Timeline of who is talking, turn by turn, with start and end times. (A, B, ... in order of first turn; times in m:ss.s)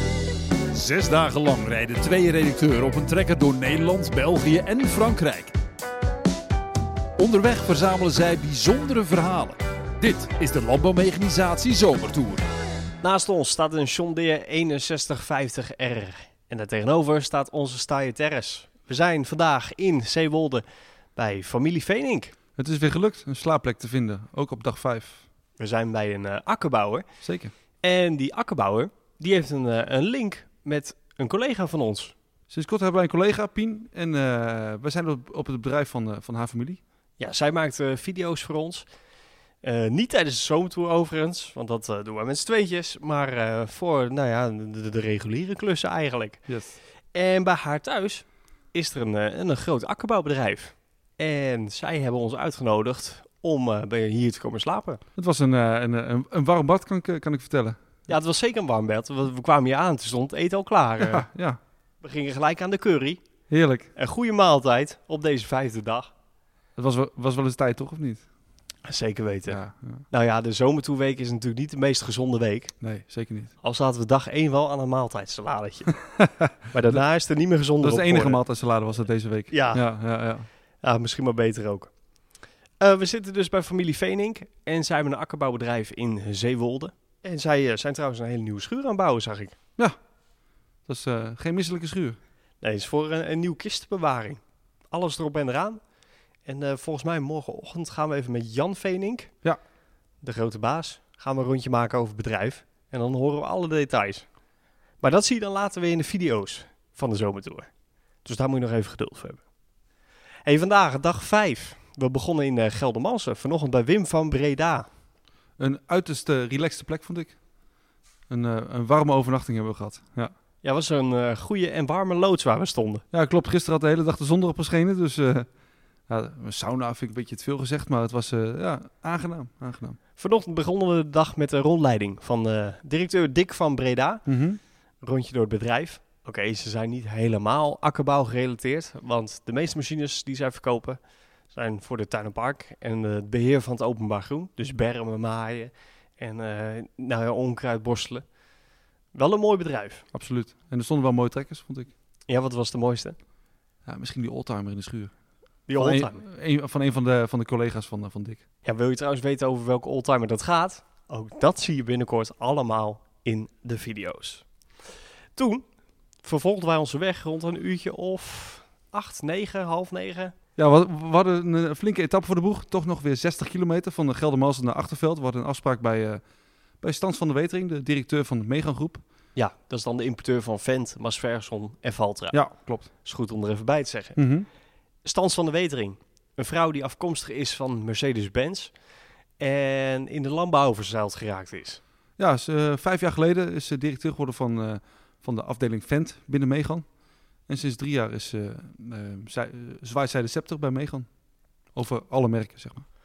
0:00.7-0:05.6 A
0:07.2-0:12.4 A
0:13.0-0:20.6 B
0:21.2-0:22.3 B
0:22.6-0:25.2 C
0:25.6-0:27.1 B
0:27.2-0:27.5 C
0:27.8-0:32.2 B
0:32.5-0:36.8 C
0:37.2-0:38.9 B
0:39.6-0:46.5 B
0:46.5-0:46.8 C
0:47.1-0:55.0 B
0:55.2-0:57.8 C
0:58.1-1:01.2 B
1:01.0-1:01.6 C
1:02.0-1:03.2 B
1:03.5-1:03.9 C
1:04.0-1:06.1 B
1:06.8-1:08.2 C
1:08.8-1:12.8 B
1:09.5-1:10.1 C
1:12.8-1:13.5 C
1:13.6-1:18.4 B
1:17.8-1:20.5 C
1:19.5-1:19.8 B
1:20.8-1:21.9 B
1:22.8-1:29.6 B
1:30.9-1:32.2 C
1:32.6-1:34.4 B
1:34.9-1:35.8 B
1:36.4-1:39.3 B
1:40.2-1:44.3 B
1:45.0-1:47.7 B
1:48.2-1:49.4 B
1:50.4-1:54.9 B
1:55.6-1:57.4 C
1:58.3-2:00.3 C
2:00.6-2:03.0 B
2:03.1-2:05.5 C
2:06.1-2:10.0 C
2:10.2-2:14.3 B
2:14.3-2:14.6 C
2:15.0-2:21.0 B
2:21.5-2:28.2 B
2:29.1-2:30.1 B
2:30.1-2:31.9 C
2:32.3-2:33.2 B
2:33.9-2:35.1 C
2:35.7-2:36.2 B
2:35.8-2:38.4 C
2:38.6-2:44.5 B
2:45.4-2:45.7 B
2:46.2-2:50.3 B
2:50.6-2:56.2 C
2:56.8-2:59.0 C
2:59.4-3:04.2 B
3:02.3-3:02.9 C
3:04.2-3:04.5 C
3:05.0-3:08.7 B
3:09.4-3:11.8 B
3:12.2-3:16.8 C
3:17.5-3:21.1 C
3:21.8-3:22.8 C